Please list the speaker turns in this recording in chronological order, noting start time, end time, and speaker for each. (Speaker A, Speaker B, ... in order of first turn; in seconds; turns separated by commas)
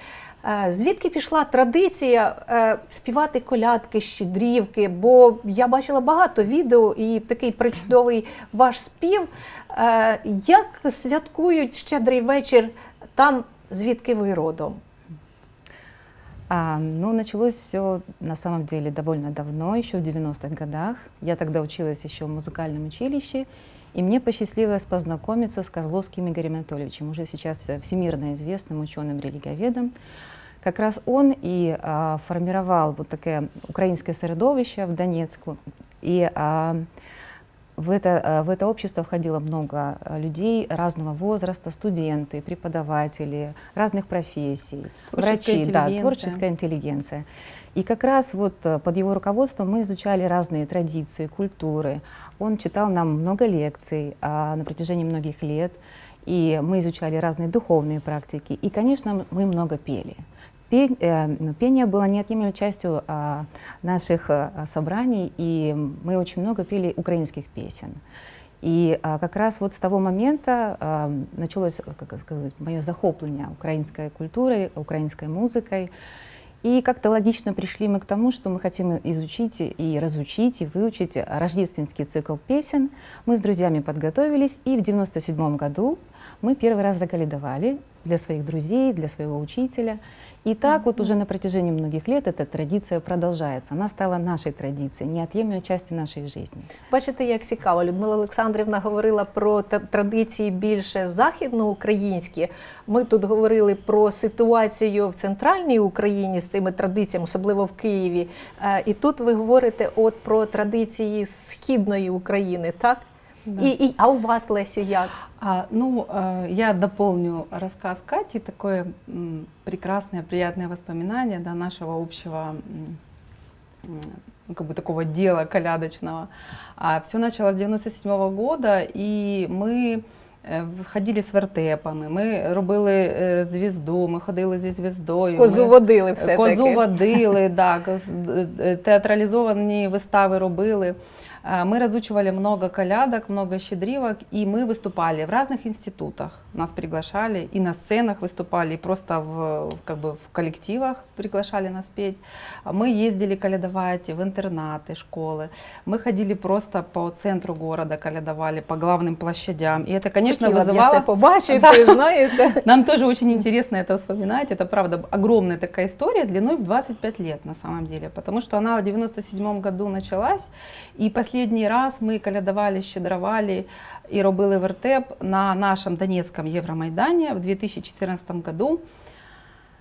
Speaker A: 0.4-14.8, Speaker B: 16.5-29.9, Speaker B: 30.6-36.9, Speaker B: 37.8-68.0, Speaker C: 45.1-46.4, Speaker B: 68.6-75.9, Speaker B: 76.6-96.7, Speaker A: 96.9-113.0, Speaker A: 113.6-115.1, Speaker C: 115.3-123.0, Speaker C: 123.8-162.0, Speaker A: 135.4-136.9, Speaker A: 160.3-162.6, Speaker C: 162.6-178.8